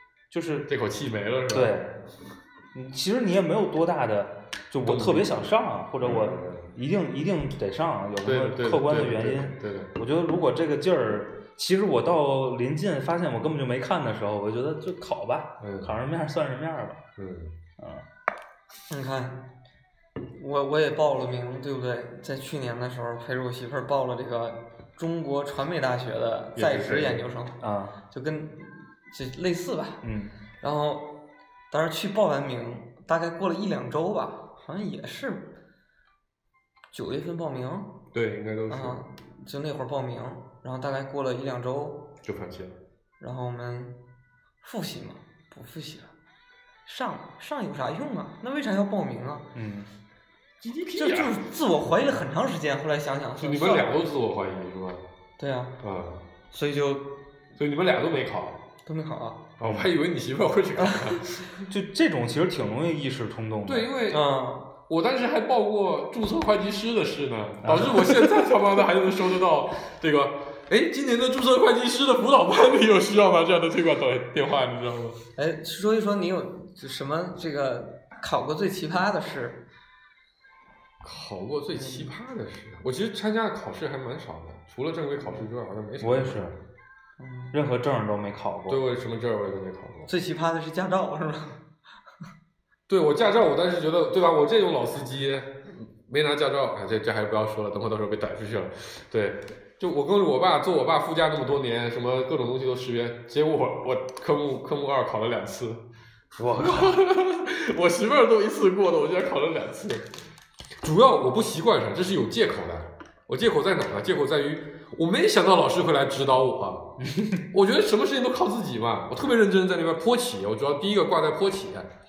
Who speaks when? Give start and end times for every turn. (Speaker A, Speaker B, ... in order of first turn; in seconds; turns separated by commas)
Speaker A: 0.3-0.7, Speaker B: 0.7-1.7, Speaker A: 1.5-1.9, Speaker A: 2.7-17.0, Speaker B: 4.8-6.7, Speaker C: 6.0-6.3, Speaker B: 8.2-9.9, Speaker B: 15.6-15.9, Speaker B: 17.2-17.5, Speaker A: 17.8-18.0, Speaker C: 18.9-19.4, Speaker C: 20.3-27.6, Speaker B: 26.6-27.2, Speaker A: 27.6-28.0, Speaker C: 28.1-30.0, Speaker A: 30.0-30.3, Speaker C: 30.6-31.1, Speaker C: 31.7-35.5, Speaker C: 36.9-38.0, Speaker B: 38.1-39.0, Speaker C: 38.7-42.1, Speaker B: 42.2-42.8, Speaker C: 43.2-44.0, Speaker C: 44.6-46.1, Speaker C: 46.9-49.5, Speaker A: 49.5-49.9, Speaker B: 50.6-51.3, Speaker C: 50.9-54.0, Speaker B: 53.4-55.0, Speaker C: 55.4-55.8, Speaker B: 55.8-56.2, Speaker C: 56.5-57.2, Speaker B: 57.5-58.6, Speaker C: 58.9-59.5, Speaker B: 59.6-61.5, Speaker A: 59.6-59.9, Speaker C: 60.8-61.2, Speaker A: 61.7-63.9, Speaker B: 63.7-64.2, Speaker C: 64.1-64.7, Speaker B: 64.9-75.2, Speaker A: 67.6-68.3, Speaker C: 75.4-79.6, Speaker B: 81.0-86.6, Speaker C: 81.7-82.1, Speaker C: 85.2-85.5, Speaker A: 86.0-86.5, Speaker C: 87.2-87.5, Speaker A: 87.5-88.8, Speaker B: 88.7-90.1, Speaker C: 90.1-91.6, Speaker B: 92.9-105.8, Speaker B: 106.4-110.1, Speaker A: 106.4-107.0, Speaker B: 110.8-117.0, Speaker A: 117.0-117.4, Speaker B: 117.5-121.9